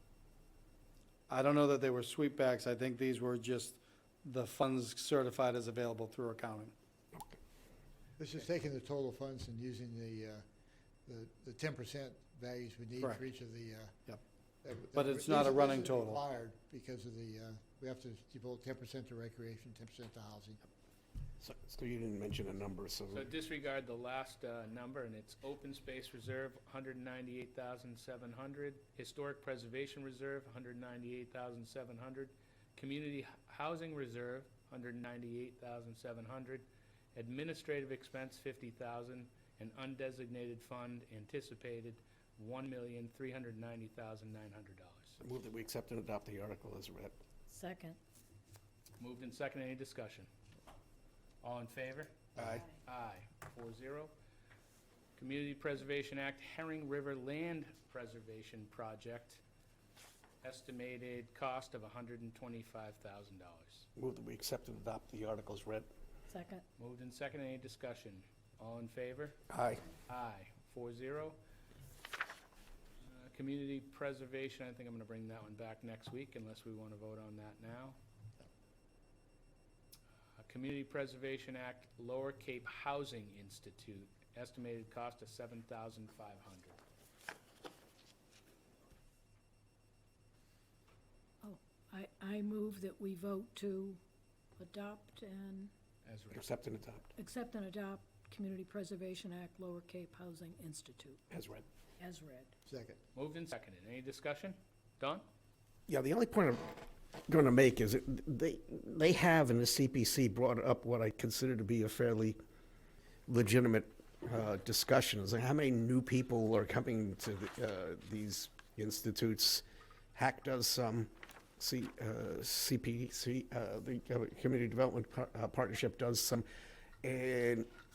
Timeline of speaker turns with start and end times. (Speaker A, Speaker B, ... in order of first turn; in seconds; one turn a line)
Speaker A: 1.3-6.7
Speaker B: 8.2-10.4
Speaker B: 11.1-13.9
Speaker B: 14.6-20.6
Speaker A: 14.9-16.2
Speaker C: 21.4-23.3
Speaker D: 23.1-45.2
Speaker C: 45.2-47.1
Speaker E: 47.5-48.0
Speaker D: 49.0-50.3
Speaker D: 51.4-54.1
Speaker C: 52.4-52.6
Speaker E: 52.5-52.8
Speaker D: 55.2-59.4
Speaker D: 60.4-63.9
Speaker C: 64.0-65.9
Speaker E: 66.3-66.6
Speaker D: 66.8-69.4
Speaker C: 69.5-69.8
Speaker D: 70.1-71.4
Speaker D: 73.0-78.0
Speaker D: 80.4-86.8
Speaker E: 91.4-94.0
Speaker E: 94.6-95.7
Speaker D: 96.0-96.5
Speaker C: 96.3-97.1
Speaker E: 97.2-101.2
Speaker C: 101.3-101.6
Speaker E: 102.0-102.5
Speaker B: 102.7-103.0
Speaker D: 103.2-105.2
Speaker C: 105.9-112.4
Speaker C: 113.3-119.6
Speaker C: 120.1-126.5
Speaker C: 127.0-127.7